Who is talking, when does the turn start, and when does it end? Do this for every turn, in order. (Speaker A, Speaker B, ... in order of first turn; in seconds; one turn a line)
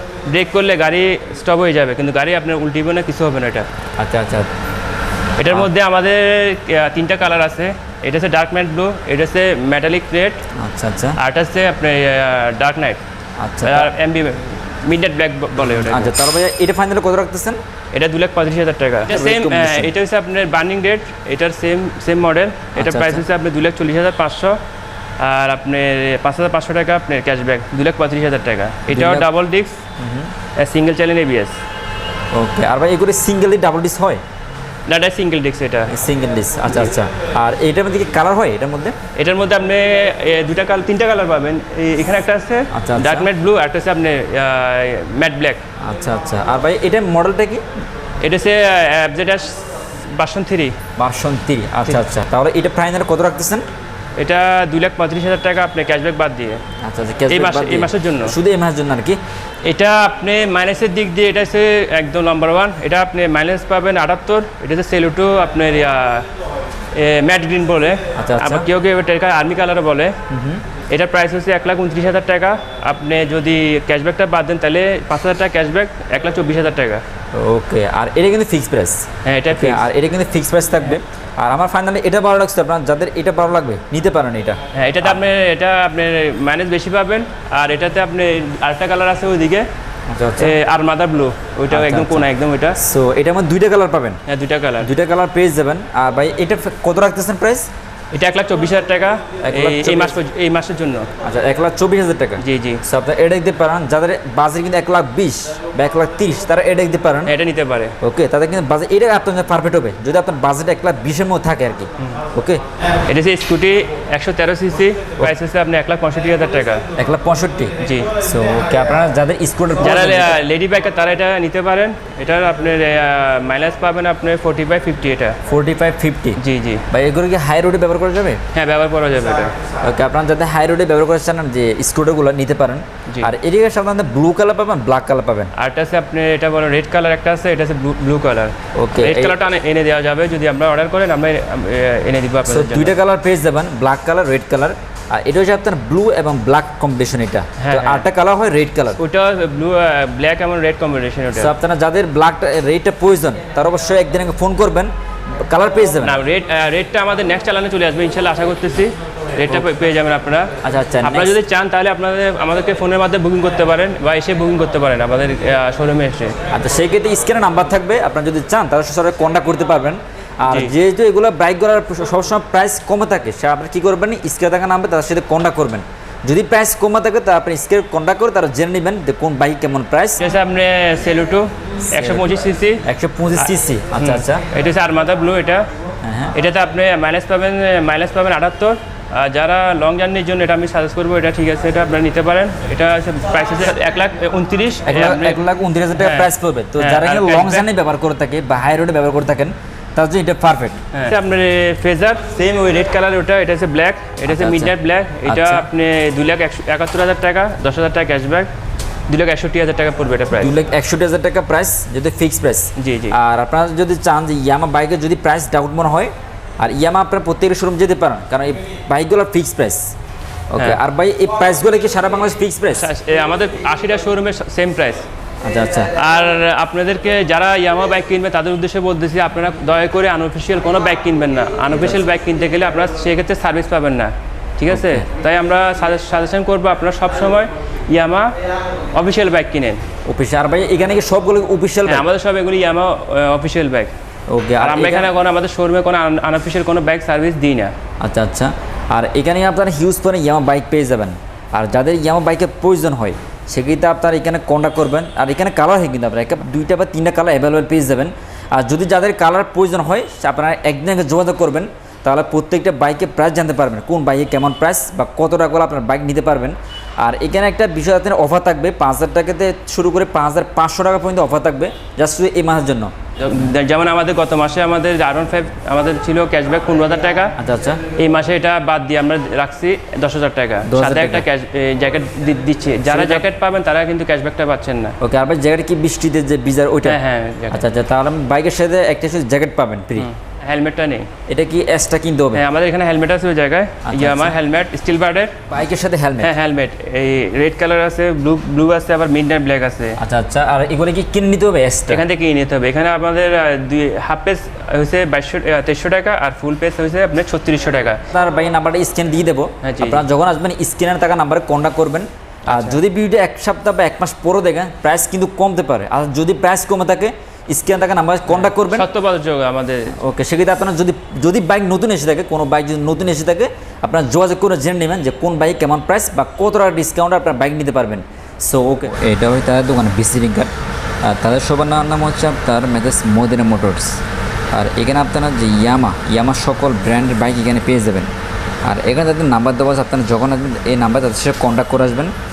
Speaker A: 0.3-3.7
Speaker B: 4.0-4.5
Speaker A: 5.4-10.5
Speaker B: 10.6-11.2
Speaker A: 11.2-13.0
Speaker B: 13.4-13.9
Speaker A: 13.6-16.1
Speaker B: 15.6-17.6
Speaker A: 17.9-24.6
Speaker B: 19.1-19.9
Speaker B: 22.8-23.2
Speaker A: 25.2-29.8
Speaker B: 28.9-29.3
Speaker B: 30.0-30.3
Speaker A: 30.6-31.6
Speaker B: 32.3-34.2
Speaker A: 34.9-35.9
Speaker B: 35.9-39.0
Speaker A: 39.2-45.6
Speaker B: 42.7-43.3
Speaker B: 45.8-47.7
Speaker A: 48.2-50.8
Speaker B: 51.0-53.6
Speaker A: 54.2-56.6
Speaker B: 56.8-59.2
Speaker A: 57.3-58.4
Speaker A: 59.6-66.3
Speaker A: 66.9-70.2
Speaker B: 68.2-68.7
Speaker B: 70.3-70.6
Speaker A: 70.9-77.0
Speaker B: 77.3-85.2
Speaker A: 79.2-79.8
Speaker A: 84.8-89.7
Speaker B: 90.1-90.6
Speaker A: 90.4-92.8
Speaker B: 91.7-94.2
Speaker A: 94.3-94.9
Speaker B: 94.8-97.7
Speaker A: 98.1-101.1
Speaker B: 99.4-100.2
Speaker B: 101.2-107.3
Speaker A: 102.4-102.8
Speaker A: 107.2-108.0
Speaker B: 108.0-112.6
Speaker A: 113.1-116.8
Speaker B: 117.0-120.4
Speaker A: 117.8-118.1
Speaker A: 119.8-125.4
Speaker B: 125.5-128.4
Speaker A: 126.4-126.9
Speaker A: 128.5-129.5
Speaker B: 129.8-135.5
Speaker A: 135.6-143.0
Speaker B: 138.8-139.4
Speaker B: 142.4-149.0
Speaker A: 147.6-148.1
Speaker A: 149.0-151.5
Speaker B: 151.3-154.9
Speaker B: 155.4-156.2
Speaker A: 156.0-160.5
Speaker B: 160.6-161.4
Speaker A: 161.0-166.4
Speaker B: 166.5-180.2
Speaker A: 170.5-170.7
Speaker A: 180.2-182.8
Speaker B: 181.9-182.3
Speaker B: 182.8-184.4
Speaker A: 183.4-185.7
Speaker B: 186.0-186.3
Speaker A: 186.3-195.4
Speaker B: 194.9-200.8
Speaker A: 195.9-197.7
Speaker A: 200.9-208.5
Speaker B: 204.3-204.7
Speaker B: 205.3-205.7
Speaker A: 209.1-210.6
Speaker B: 210.4-219.9
Speaker A: 212.8-213.2
Speaker B: 220.5-222.9
Speaker A: 222.7-225.0
Speaker B: 225.4-225.9
Speaker A: 225.9-238.3
Speaker B: 234.7-235.1
Speaker A: 238.9-239.8
Speaker B: 240.1-242.1
Speaker A: 241.9-243.9
Speaker B: 244.3-245.1
Speaker A: 244.6-247.7
Speaker B: 248.0-272.9
Speaker A: 273.2-277.4
Speaker B: 277.4-277.8
Speaker A: 277.9-285.0
Speaker B: 280.6-281.3
Speaker B: 282.9-283.3
Speaker B: 285.0-287.0
Speaker A: 286.8-287.6
Speaker B: 287.5-290.1
Speaker A: 290.0-291.1
Speaker B: 291.3-292.4
Speaker A: 292.3-295.4
Speaker B: 293.8-294.4
Speaker B: 295.5-296.3
Speaker A: 296.2-300.0
Speaker B: 300.0-302.0
Speaker A: 301.9-308.0
Speaker B: 308.1-318.9
Speaker A: 309.6-310.1
Speaker A: 312.5-312.8
Speaker A: 318.3-320.0
Speaker B: 319.9-330.5
Speaker B: 331.0-334.0
Speaker B: 334.5-338.1
Speaker B: 338.6-342.1